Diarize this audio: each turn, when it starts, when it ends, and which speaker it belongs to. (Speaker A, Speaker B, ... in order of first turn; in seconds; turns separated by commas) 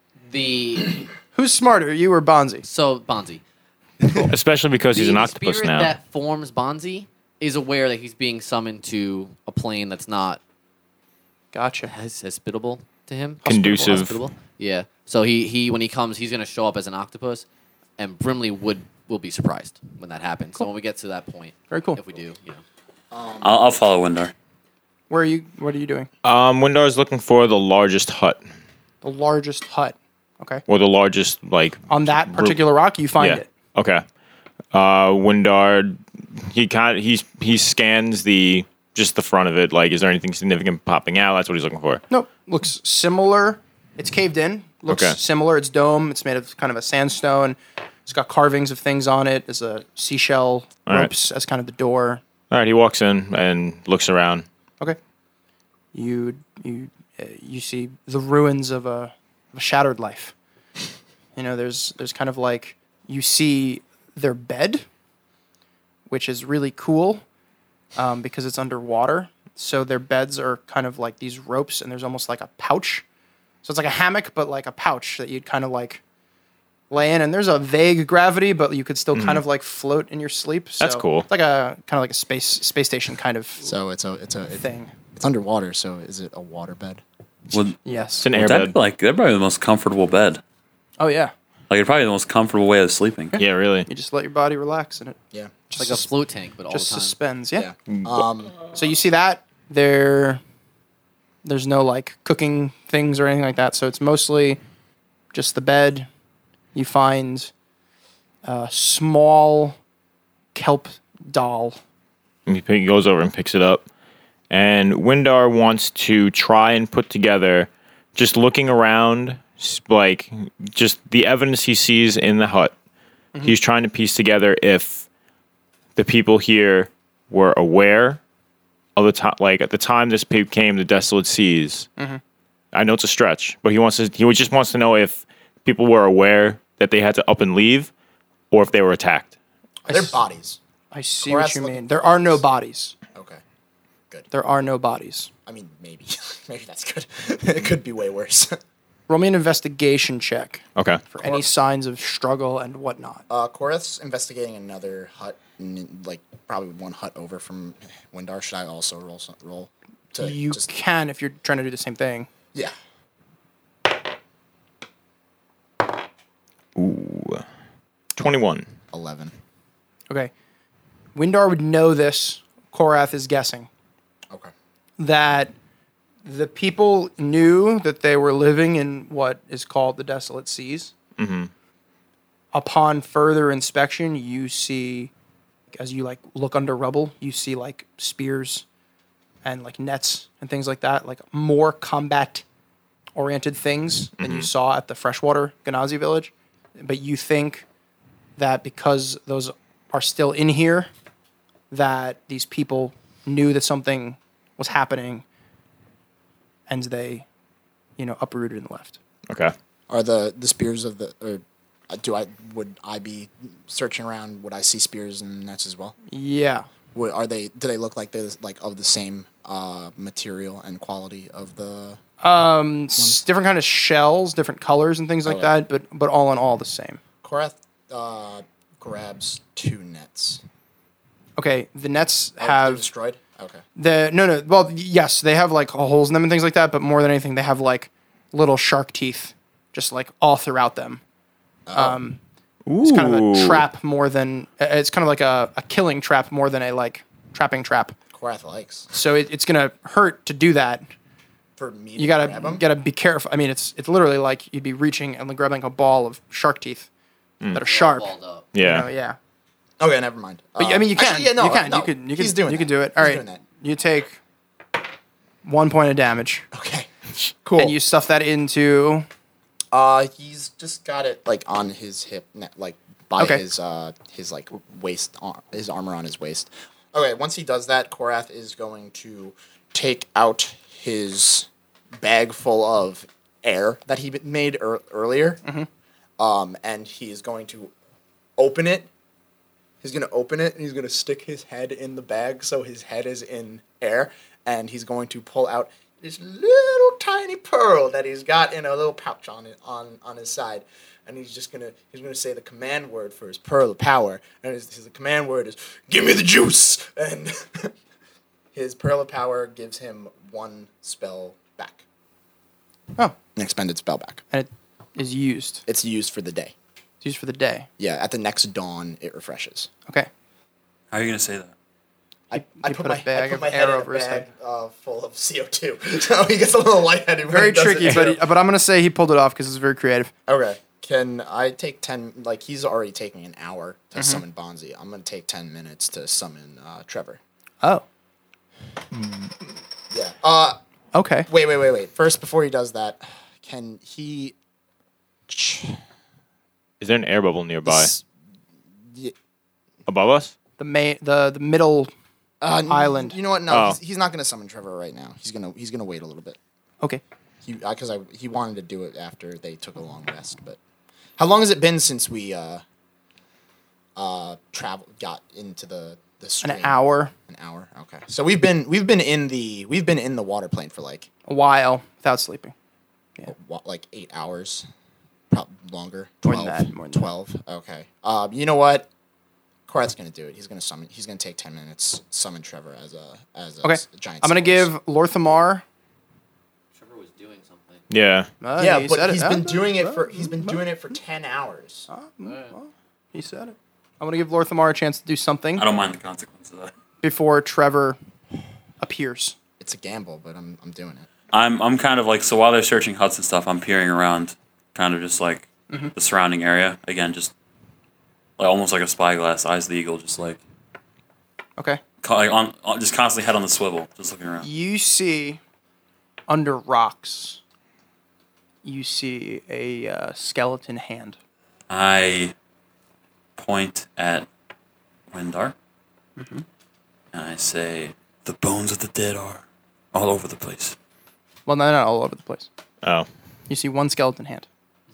Speaker A: 0.2-1.1, Speaker B: 1.3-2.6, Speaker A: 2.6-3.4, Speaker C: 4.3-5.9, Speaker A: 4.9-10.4, Speaker B: 11.5-11.9, Speaker A: 11.9-17.4, Speaker B: 13.4-14.1, Speaker C: 13.4-14.2, Speaker A: 18.0-22.6, Speaker B: 21.7-22.0, Speaker D: 23.1-23.6, Speaker E: 23.4-24.3, Speaker B: 25.1-26.1, Speaker C: 26.2-28.4, Speaker B: 29.0-30.6, Speaker C: 30.7-32.6, Speaker B: 31.9-33.5, Speaker C: 33.2-34.0, Speaker C: 34.7-42.0, Speaker B: 42.1-52.2, Speaker C: 44.9-45.1, Speaker C: 52.5-54.4, Speaker B: 55.9-60.3, Speaker B: 61.3-64.8, Speaker B: 66.1-67.2, Speaker B: 68.0-73.0, Speaker B: 73.6-76.0, Speaker B: 76.9-83.7, Speaker C: 79.1-79.4, Speaker C: 80.8-81.3, Speaker D: 83.6-87.0, Speaker B: 84.5-84.9, Speaker E: 87.5-87.8, Speaker B: 87.8-88.3, Speaker C: 88.2-88.7, Speaker E: 88.3-90.4, Speaker B: 91.0-91.3, Speaker E: 91.7-93.3, Speaker B: 93.3-95.2, Speaker C: 93.3-93.9, Speaker B: 95.7-96.1, Speaker A: 95.8-97.2, Speaker B: 96.7-97.7, Speaker D: 97.5-98.5, Speaker B: 98.7-100.4, Speaker B: 101.4-104.6, Speaker B: 105.3-106.1, Speaker B: 106.7-107.5, Speaker B: 108.4-109.8, Speaker B: 110.5-111.8, Speaker C: 112.5-113.8, Speaker C: 114.5-122.7, Speaker C: 123.4-125.0, Speaker C: 126.0-128.2, Speaker C: 128.9-131.9, Speaker C: 132.7-137.9, Speaker C: 138.5-139.3, Speaker D: 139.8-140.6, Speaker B: 139.9-140.2, Speaker B: 140.9-142.9, Speaker D: 141.2-142.4, Speaker D: 143.1-143.4, Speaker B: 144.3-145.3, Speaker D: 145.4-148.6, Speaker B: 149.1-153.2, Speaker C: 150.8-151.0, Speaker D: 151.2-151.5, Speaker D: 153.3-160.7, Speaker B: 160.2-162.3, Speaker C: 166.8-167.4, Speaker C: 168.2-168.7, Speaker D: 168.9-169.3, Speaker B: 171.1-173.7, Speaker B: 175.0-175.5, Speaker B: 176.2-180.9, Speaker C: 181.2-181.5, Speaker B: 182.5-185.1, Speaker B: 185.7-188.6, Speaker B: 189.4-192.4, Speaker B: 193.2-197.6, Speaker C: 194.2-194.5, Speaker B: 198.4-200.9, Speaker B: 201.7-205.2, Speaker B: 206.7-207.2, Speaker B: 208.0-209.0, Speaker C: 209.3-209.5, Speaker D: 209.9-215.9, Speaker B: 216.1-216.7, Speaker D: 216.9-222.0, Speaker B: 222.2-227.0, Speaker D: 225.2-225.5, Speaker D: 227.2-230.4, Speaker B: 231.4-232.8, Speaker D: 232.4-233.6, Speaker B: 233.8-241.0, Speaker D: 241.7-242.0, Speaker B: 241.7-242.2, Speaker C: 242.7-243.6, Speaker B: 242.8-247.9, Speaker D: 248.1-248.9, Speaker B: 248.9-250.8, Speaker D: 251.6-252.6, Speaker B: 251.9-256.9, Speaker B: 257.5-259.2, Speaker A: 257.5-258.5, Speaker C: 258.5-258.9, Speaker D: 259.8-263.4, Speaker B: 260.6-264.2, Speaker B: 265.4-266.4, Speaker D: 266.5-267.8, Speaker B: 267.6-269.1, Speaker D: 269.7-285.4, Speaker B: 273.2-273.4, Speaker D: 286.2-287.7, Speaker D: 288.4-288.9, Speaker D: 289.8-307.7, Speaker D: 308.5-311.8, Speaker D: 313.4-314.2, Speaker B: 314.3-315.6, Speaker D: 315.7-316.5, Speaker B: 317.0-317.7, Speaker D: 317.8-319.7, Speaker E: 320.9-321.5, Speaker D: 322.3-328.2, Speaker B: 322.3-324.3, Speaker B: 327.3-330.1, Speaker D: 330.3-337.2, Speaker B: 334.0-334.2, Speaker D: 339.9-340.6, Speaker B: 340.9-341.3, Speaker D: 341.3-344.4, Speaker D: 345.3-345.8, Speaker C: 346.8-347.9, Speaker D: 347.6-348.0, Speaker C: 349.9-350.3, Speaker B: 350.6-351.9, Speaker D: 352.4-356.4, Speaker B: 352.6-353.1, Speaker C: 353.5-353.8, Speaker D: 357.4-360.6, Speaker D: 361.2-362.6, Speaker D: 363.9-371.1, Speaker B: 366.4-367.1, Speaker B: 371.2-372.5, Speaker D: 373.3-374.7, Speaker D: 375.3-378.9, Speaker B: 376.2-377.1, Speaker D: 379.7-384.7, Speaker B: 383.6-385.6, Speaker A: 386.7-387.9, Speaker C: 387.9-388.3, Speaker B: 388.4-390.6, Speaker D: 388.6-391.9, Speaker B: 391.9-395.6, Speaker E: 395.6-396.7, Speaker B: 397.0-398.0, Speaker B: 398.8-399.4, Speaker D: 399.6-401.1, Speaker E: 401.3-407.3, Speaker E: 408.4-410.4, Speaker E: 412.0-414.4, Speaker B: 414.4-415.4, Speaker B: 416.3-417.4, Speaker B: 418.6-421.2, Speaker E: 421.7-422.3, Speaker E: 423.4-424.3, Speaker E: 425.1-425.5, Speaker B: 426.2-426.4, Speaker E: 427.1-430.8, Speaker B: 431.5-432.5, Speaker B: 433.5-434.5